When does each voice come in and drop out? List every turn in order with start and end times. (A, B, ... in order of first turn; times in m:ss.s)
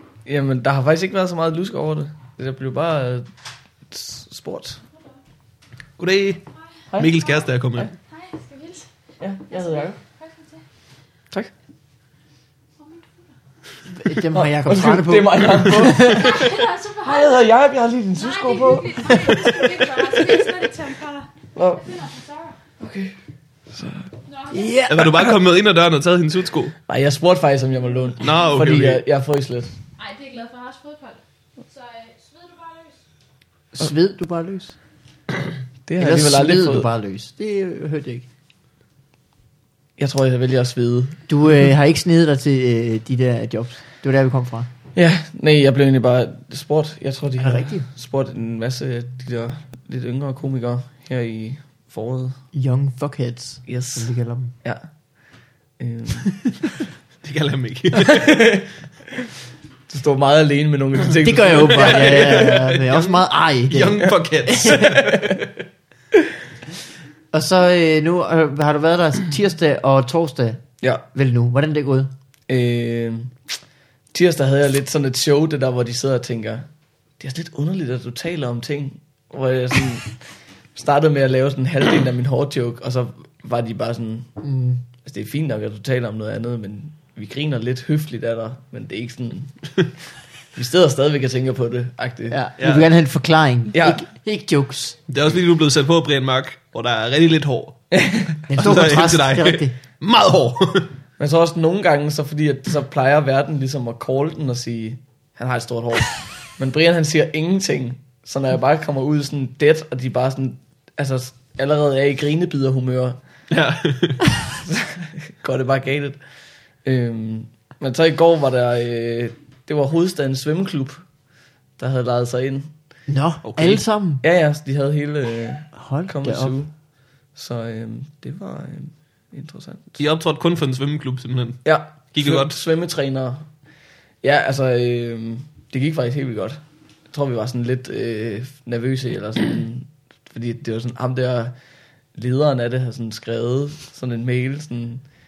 0:00.3-0:03.3 A
0:03.9-0:04.8 A
0:06.0-0:06.4 B
0:07.0-0:07.9 B
0:07.0-0:08.9 C
0:09.2-0:10.0 A
0:09.5-0:10.6 C
0:12.8-0:13.2 C
0:13.9-0:16.4 D
0:14.3-0:20.5 A
0:16.1-0:17.5 C
0:18.2-0:22.6 C
0:19.2-0:19.4 D
0:21.6-0:21.8 A
0:22.8-0:23.1 A
0:23.7-0:24.1 A
0:24.3-0:24.8 C
0:24.5-0:25.2 D
0:24.9-0:26.8 B
0:26.9-0:29.7 A
0:28.2-0:29.0 B
0:30.0-0:33.0 C
0:33.8-0:34.8 D
0:35.9-0:36.9 A
0:36.0-0:38.3 D
0:40.0-0:41.2 A
0:41.3-0:44.7 D
0:45.0-0:52.4 A
0:47.4-0:47.9 D
0:52.5-0:54.5 D
0:53.6-0:54.1 A
0:55.8-0:56.3 A
0:57.2-0:58.4 B
0:58.0-0:58.6 A
0:59.9-1:02.3 A
1:01.1-1:05.1 D
1:01.7-1:05.4 B
1:04.8-1:05.4 A
1:07.3-1:12.1 D
1:12.5-1:13.4 A
1:14.1-1:16.6 A
1:17.2-1:20.2 A
1:20.8-1:24.3 A
1:24.4-1:24.8 D
1:25.0-1:29.6 A
1:30.6-1:32.4 A
1:32.3-1:35.0 D
1:32.6-1:32.9 B
1:33.7-1:34.0 A
1:35.1-1:37.9 B
1:37.9-1:38.4 A
1:38.5-1:39.7 D
1:38.5-1:40.9 B
1:41.2-1:53.2 A
1:53.5-1:54.2 B
1:54.7-1:56.2 A
1:56.8-2:01.0 A
2:01.8-2:02.7 A
2:03.1-2:04.2 D
2:03.4-2:03.8 B
2:04.2-2:06.7 A
2:05.8-2:06.6 D
2:07.4-2:10.0 A
2:10.0-2:12.6 B
2:11.6-2:13.4 A
2:14.2-2:21.5 A
2:22.1-2:25.0 A